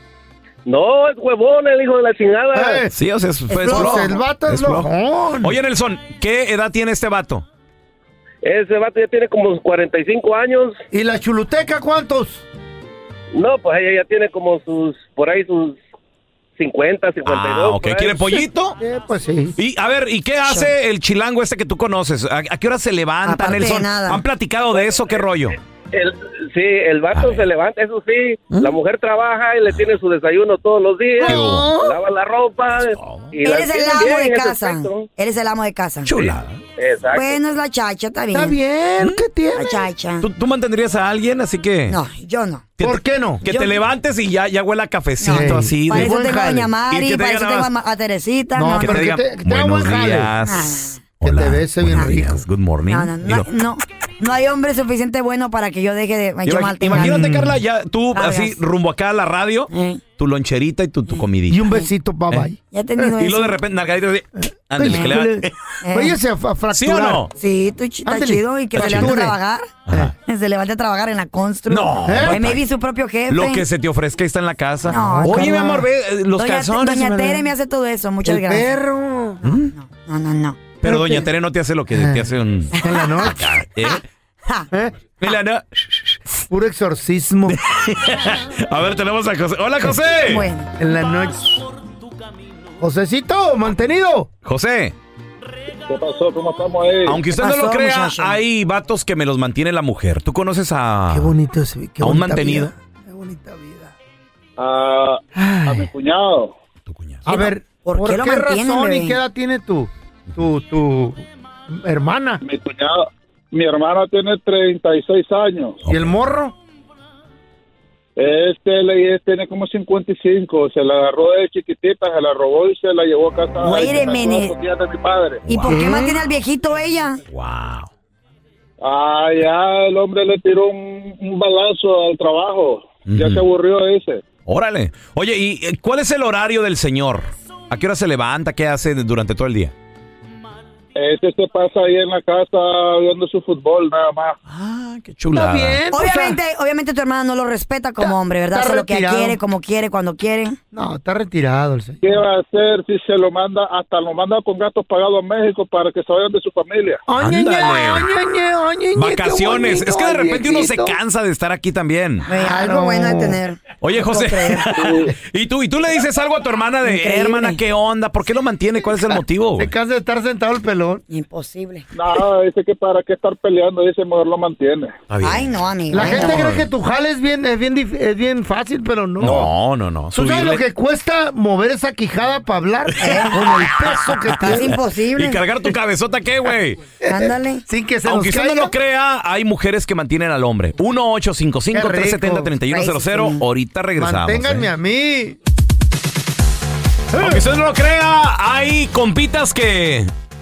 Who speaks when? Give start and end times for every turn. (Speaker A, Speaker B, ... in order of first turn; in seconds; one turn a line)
Speaker A: 0.7-2.8
Speaker B: 2.5-2.9
Speaker C: 2.9-4.9
Speaker D: 3.5-4.1
Speaker B: 3.6-5.5
Speaker C: 5.4-7.4
Speaker A: 8.4-10.8
Speaker B: 10.9-12.4
Speaker A: 13.3-15.8
Speaker A: 16.6-18.4
Speaker C: 17.2-18.8
Speaker B: 18.8-19.6
Speaker C: 19.6-25.6
Speaker D: 23.2-24.2
Speaker A: 24.7-25.2
Speaker A: 25.9-35.1
Speaker C: 27.1-27.5
Speaker C: 29.7-29.9
Speaker D: 31.2-31.9
Speaker C: 31.2-31.7
Speaker B: 31.4-31.7
Speaker C: 32.8-33.3
Speaker D: 33.4-36.3
Speaker C: 36.0-36.6
Speaker A: 36.8-37.4
Speaker D: 37.1-38.6
Speaker B: 38.3-39.7
Speaker D: 39.5-40.3
Speaker C: 40.2-42.0
Speaker D: 41.9-42.7
Speaker C: 42.8-47.7
Speaker B: 42.8-43.4
Speaker D: 43.4-43.8
Speaker D: 45.2-49.0
Speaker B: 45.3-46.7
Speaker B: 48.5-50.3
Speaker C: 48.8-53.5
Speaker D: 50.4-51.0
Speaker B: 51.2-52.4
Speaker D: 52.9-57.4
Speaker C: 56.4-61.7
Speaker B: 56.9-57.5
Speaker D: 58.1-58.6
Speaker D: 59.7-60.0
Speaker D: 61.1-61.9
Speaker B: 61.5-63.1
Speaker D: 62.7-63.6
Speaker C: 63.2-65.5
Speaker B: 64.7-67.2
Speaker D: 65.8-66.2
Speaker C: 66.7-67.3
Speaker D: 67.4-73.6
Speaker B: 68.0-69.3
Speaker C: 68.7-69.2
Speaker C: 69.9-70.1
Speaker C: 71.7-72.6
Speaker B: 72.0-72.4
Speaker C: 73.3-77.4
Speaker D: 74.9-78.7
Speaker B: 75.0-75.8
Speaker B: 78.2-79.4
Speaker C: 79.4-79.7
Speaker D: 79.4-80.6
Speaker C: 80.8-84.0
Speaker B: 80.8-81.2
Speaker B: 81.9-83.4
Speaker D: 82.7-84.7
Speaker C: 85.2-86.2
Speaker B: 86.5-87.6
Speaker C: 87.5-90.5
Speaker D: 90.2-90.7
Speaker B: 90.8-91.6
Speaker B: 92.8-94.3
Speaker C: 94.4-94.9
Speaker E: 95.9-97.2
Speaker C: 97.0-101.3
Speaker D: 97.3-98.4
Speaker B: 101.1-103.9
Speaker C: 102.0-102.7
Speaker E: 104.6-106.5
Speaker B: 105.3-105.9
Speaker C: 106.8-107.2
Speaker B: 107.2-112.4
Speaker D: 107.3-109.2
Speaker E: 112.4-115.8
Speaker C: 115.8-116.3
Speaker B: 115.9-116.5
Speaker E: 118.2-125.4
Speaker D: 123.6-124.5
Speaker C: 125.5-126.0
Speaker D: 125.5-127.2
Speaker B: 125.7-126.2
Speaker C: 127.3-127.9
Speaker E: 128.8-134.2
Speaker C: 133.1-133.4
Speaker C: 134.4-139.7
Speaker E: 140.9-144.4
Speaker C: 144.5-145.8
Speaker B: 145.3-146.4
Speaker D: 145.9-150.6
Speaker B: 148.0-149.4
Speaker B: 150.7-152.2
Speaker E: 152.0-157.0
Speaker B: 157.1-161.0
Speaker C: 157.2-158.1
Speaker C: 158.9-162.2
Speaker D: 162.3-164.8
Speaker B: 162.3-163.4
Speaker C: 163.8-169.7
Speaker D: 166.8-167.6
Speaker B: 169.6-171.0
Speaker D: 171.1-171.9
Speaker E: 171.9-175.0
Speaker C: 175.1-176.7
Speaker D: 175.2-176.4
Speaker B: 175.9-179.5
Speaker C: 179.2-180.6
Speaker B: 180.1-184.7
Speaker D: 183.0-183.4
Speaker C: 183.8-186.8
Speaker D: 184.4-185.4
Speaker B: 187.0-188.7
Speaker D: 187.1-187.6
Speaker C: 188.0-194.7
Speaker B: 191.7-192.5
Speaker D: 192.7-193.4
Speaker B: 194.0-195.3
Speaker B: 197.1-197.5
Speaker C: 197.2-200.1